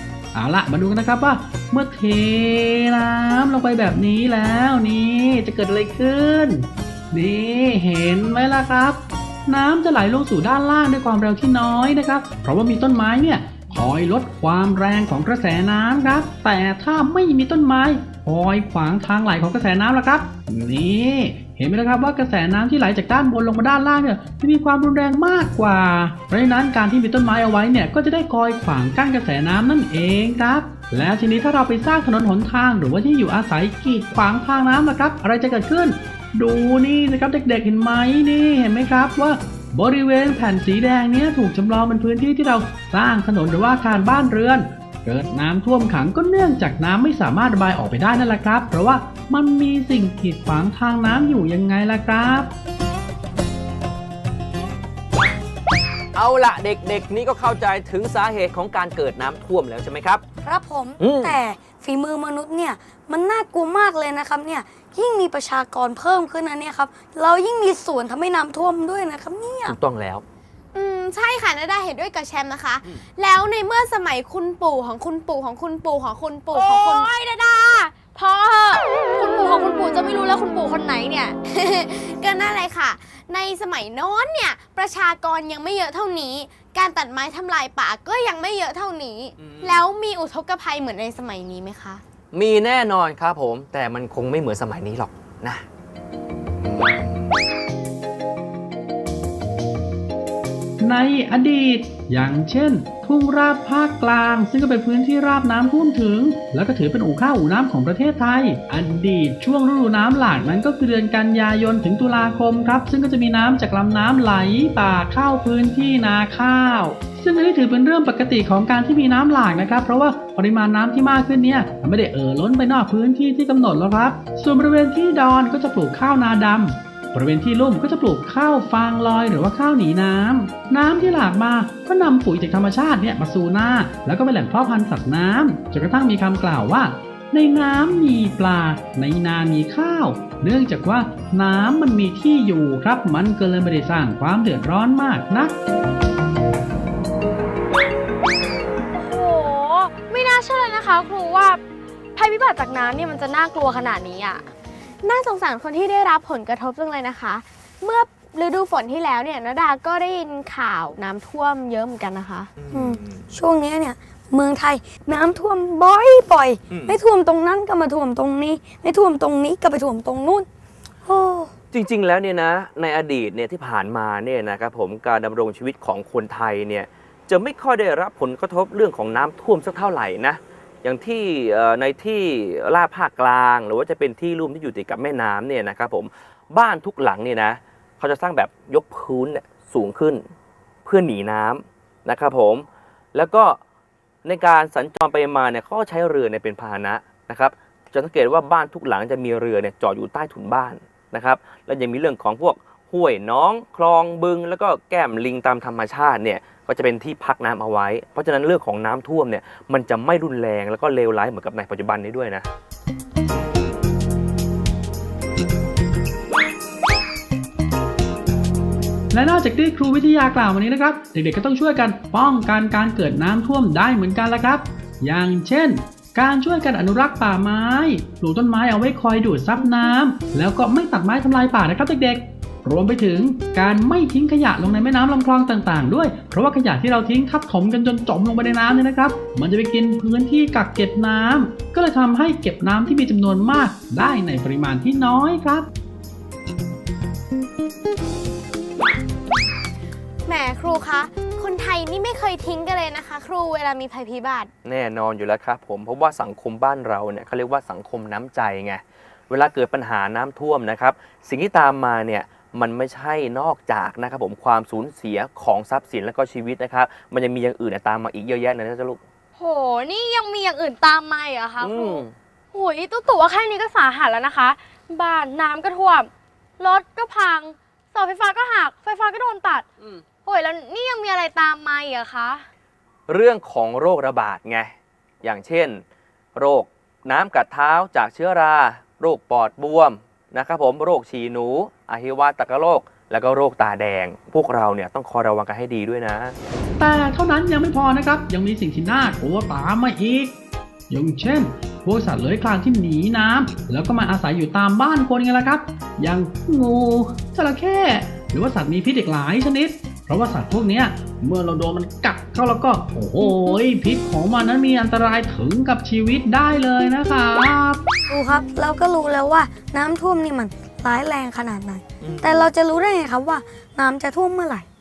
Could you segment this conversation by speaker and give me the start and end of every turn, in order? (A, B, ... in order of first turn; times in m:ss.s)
0:00.3-0:52.5 A
0:56.2-1:00.2 B
1:00.4-1:09.8 C
1:01.0-1:01.4 B
1:09.7-1:10.2 B
1:10.7-1:17.1 D
1:16.5-1:21.4 E
1:21.5-1:32.0 D
1:29.4-1:29.8 B
1:32.3-1:35.6 B
1:36.6-1:37.1 B
1:40.8-2:25.6 A
2:29.0-2:31.6 E
2:32.2-2:34.5 E
2:35.0-2:42.5 D
2:42.6-2:43.2 B
2:42.7-2:50.5 C
2:46.7-2:47.0 B
2:51.1-2:51.5 C
2:51.7-3:10.2 B
3:10.8-3:13.6 B
3:14.2-3:32.5 B
3:39.1-4:05.7 A
4:10.3-4:14.5 D
4:14.6-4:29.0 B
4:29.4-4:39.6 E
4:31.6-4:32.1 B
4:40.2-4:42.4 E
4:43.1-4:45.8 B
4:46.4-4:56.4 B
4:56.8-5:00.4 A
5:00.9-5:17.8 A
5:18.1-5:24.7 C
5:22.0-5:22.5 B